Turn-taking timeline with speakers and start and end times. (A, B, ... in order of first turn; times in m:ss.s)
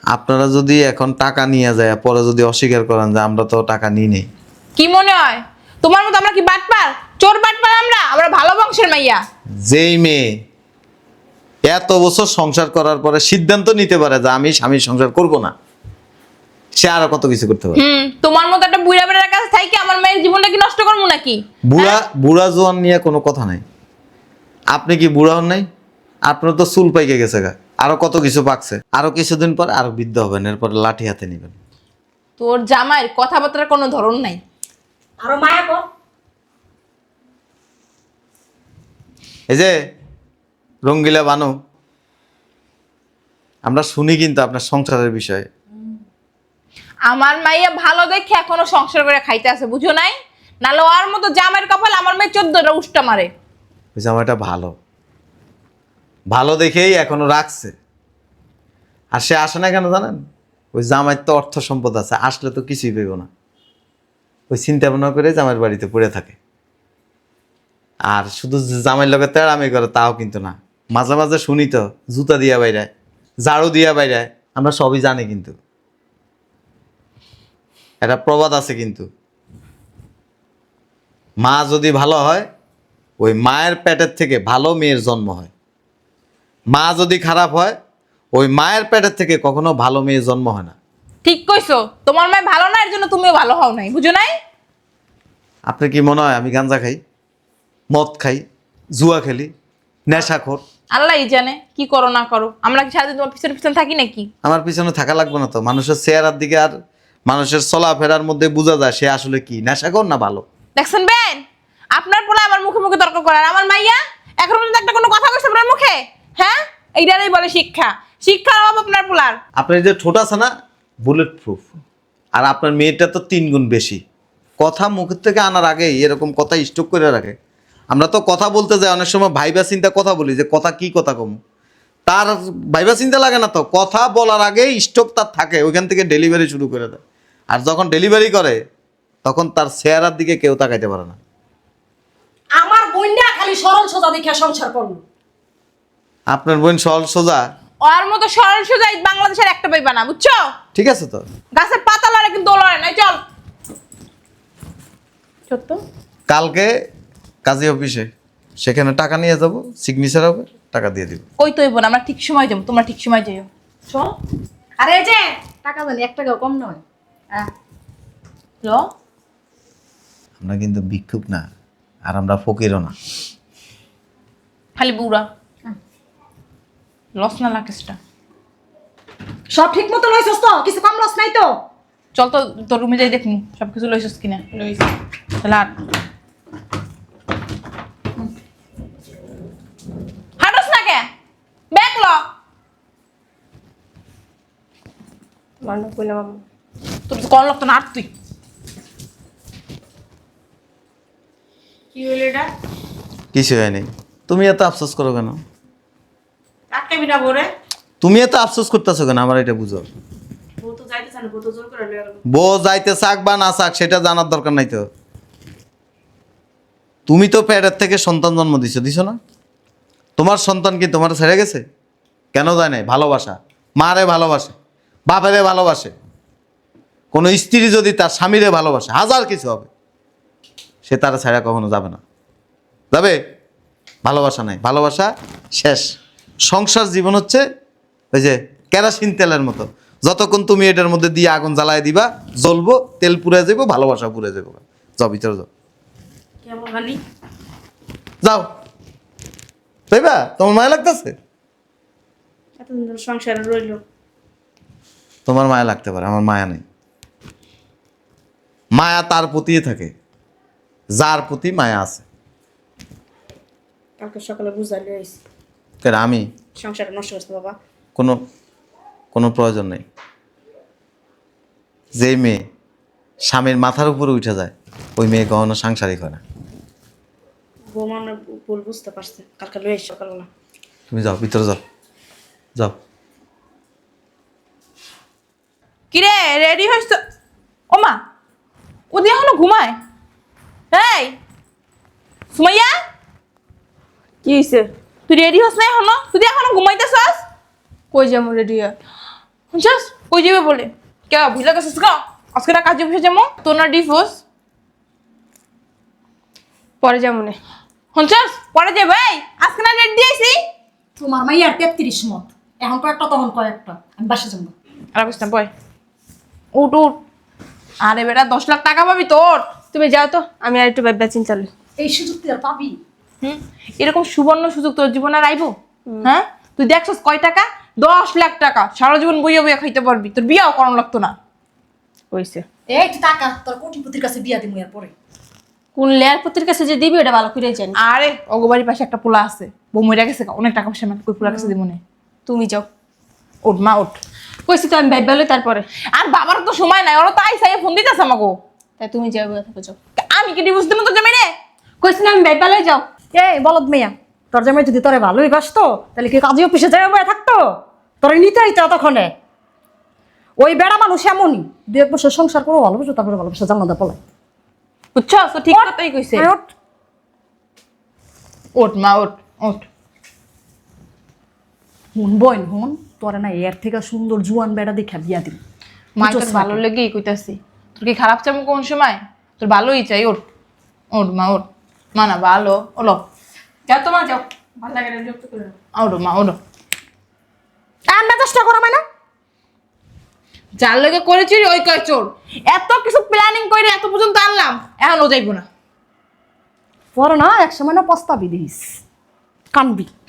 0:00.1-0:04.3 A
0:04.8-0:09.2 B
0:09.6-0:10.3 A
0:11.7-0:15.5 A
0:16.8-0:17.8 A
0:17.8-0:22.0 B
0:21.7-0:23.6 A
0:24.7-0:25.7 A
0:26.3-0:31.6 A
0:32.4-0:34.4 B
0:35.2-0:35.8 C
0:39.5-0:39.7 A
0:40.8-0:41.5 A
0:43.6-0:45.5 A
0:47.1-0:53.3 B
0:54.0-0:54.8 A
0:56.3-0:57.7 A
0:59.1-1:00.2 A
1:00.7-1:03.3 A
1:04.5-1:06.4 A
1:08.1-1:12.9 A
1:13.4-1:15.6 A
1:18.0-1:19.1 A
1:21.4-1:22.5 A
1:23.2-1:25.5 A
1:26.7-1:27.8 A
1:28.3-1:30.8 A
1:31.2-1:34.3 B
1:35.7-1:37.0 A
1:37.9-1:39.5 A
1:40.1-1:40.6 A
1:40.9-1:44.3 B
1:44.4-1:46.7 A
1:47.3-1:50.4 A
1:50.8-1:59.4 B
1:59.6-2:00.5 A
2:01.0-2:01.8 A
2:02.4-2:04.0 A
2:04.6-2:07.4 A
2:07.9-2:11.4 A
2:12.1-2:18.6 A
2:19.2-2:21.2 A
2:22.6-2:25.0 C
2:26.3-2:27.5 A
2:27.8-2:30.4 B
2:30.8-2:31.2 A
2:31.6-2:33.2 B
2:35.5-2:35.8 B
2:36.3-2:36.7 A
2:37.4-2:41.2 A
2:41.4-2:44.2 B
2:44.8-2:46.8 C
2:50.4-2:51.5 A
2:52.0-2:52.9 A
2:54.8-2:55.3 B
2:57.2-2:58.0 B
2:59.5-3:01.5 C
3:02.2-3:04.6 B
3:05.4-3:05.7 B
3:10.4-3:11.1 B
3:11.7-3:12.2 B
3:15.6-3:16.4 D
3:17.1-3:18.1 B
3:21.9-3:22.5 E
3:23.3-3:25.4 A
3:26.7-3:27.5 E
3:28.0-3:29.9 A
3:30.6-3:32.2 E
3:32.3-3:34.9 A
3:37.1-3:39.2 A
3:40.2-3:41.6 A
3:42.3-3:44.6 A
3:45.1-3:45.9 A
3:47.1-3:49.7 A
3:50.8-3:52.0 A
3:52.9-3:53.2 A
3:54.0-3:56.0 A
3:56.5-3:57.4 A
3:58.1-4:05.5 A
4:06.4-4:07.0 E
4:09.9-4:11.2 A
4:12.6-4:13.8 E
4:15.3-4:16.6 A
4:18.8-4:19.9 A
4:20.9-4:22.0 A
4:24.0-4:25.2 D
4:25.8-4:26.3 A
4:26.6-4:27.6 E
4:29.1-4:29.8 A
4:32.0-4:32.4 A
4:33.2-4:36.2 A
4:37.7-4:40.3 E
4:40.9-4:41.6 A
4:45.9-4:47.0 B
4:47.7-4:48.0 B
4:48.9-4:49.8 B
4:50.7-4:51.2 B
4:52.3-4:52.7 B
4:54.2-4:54.7 D
4:55.1-4:57.2 B
4:57.9-4:58.8 D
4:59.5-5:04.2 B
5:06.8-5:07.4 D
5:07.9-5:10.4 B
5:11.0-5:14.5 C
5:15.0-5:15.5 B
5:16.5-5:17.0 B
5:17.8-5:19.5 B
5:19.7-5:21.5 D
5:21.8-5:22.8 C
5:23.2-5:31.1 B
5:32.1-5:32.4 D
5:32.7-5:34.9 C
5:35.8-5:37.8 D
5:37.8-5:41.8 B
5:41.2-5:41.5 D
5:42.3-5:42.7 D
5:43.4-5:44.0 B
5:44.5-5:45.7 D
5:45.9-5:48.4 B
5:48.8-5:49.8 D
5:50.0-5:51.3 B
5:51.8-5:52.9 D
5:53.1-5:57.4 C
5:58.0-5:59.1 C
6:00.4-6:04.0 C
6:05.0-6:06.3 B
6:05.5-6:06.5 C
6:08.6-6:09.7 B
6:12.0-6:15.4 C
6:16.0-6:20.2 B
6:16.0-6:16.6 C
6:20.9-6:23.0 B
6:23.7-6:25.6 D
6:25.8-6:26.4 B
6:27.9-6:28.8 C
6:30.6-6:35.5 B
6:37.0-6:38.8 C
6:39.5-6:39.9 C